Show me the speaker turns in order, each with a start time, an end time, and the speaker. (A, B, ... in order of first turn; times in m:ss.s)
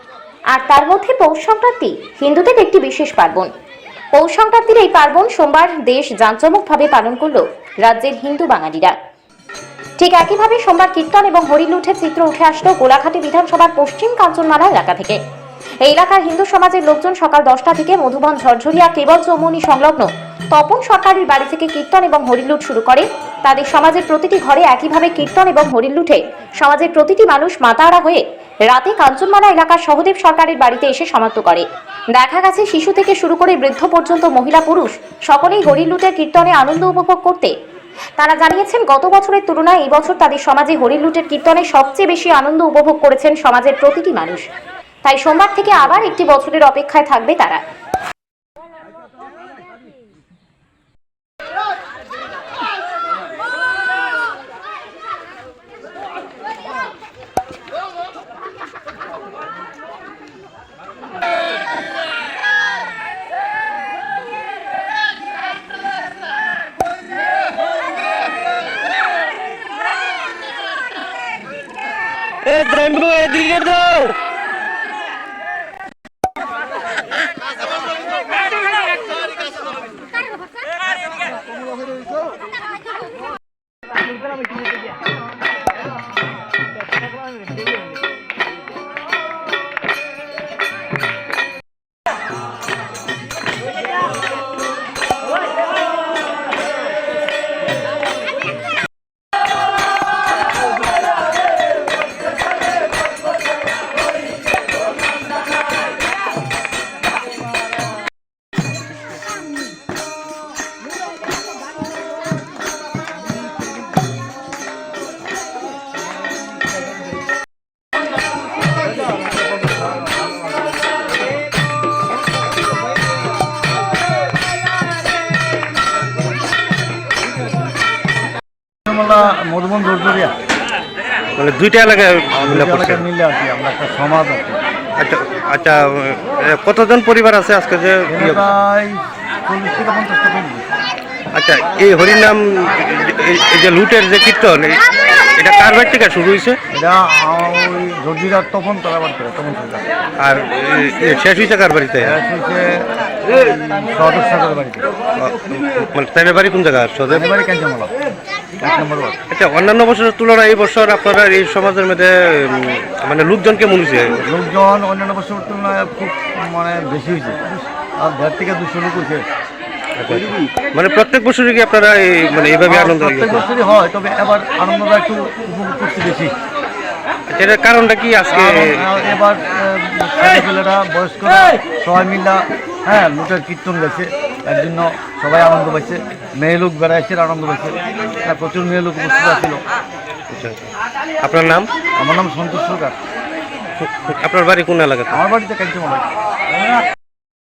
0:00.5-0:03.5 A
0:04.2-0:09.0 A
0:10.0-0:15.2 A
0:15.8-0:37.5 A
0:38.2-0:44.5 A
0:45.0-0:47.6 A
1:12.4-1:14.2 B
2:08.9-2:10.3 C
2:11.4-2:13.0 B
2:12.4-2:14.6 C
2:15.0-2:18.5 B
2:18.1-2:20.7 C
2:21.3-2:26.6 B
2:26.7-2:29.8 C
2:30.2-2:32.2 B
2:32.0-2:34.8 C
2:35.2-2:37.3 B
2:37.1-2:37.9 C
2:38.6-2:39.2 C
2:39.3-2:44.2 B
2:44.2-2:49.2 C
2:50.0-2:53.5 B
2:52.7-2:56.3 C
2:57.3-2:59.0 B
2:58.3-3:09.6 C
3:10.3-3:10.7 B
3:11.2-3:11.7 B
3:12.0-3:13.0 C
3:13.9-3:15.2 B
3:15.1-3:16.0 C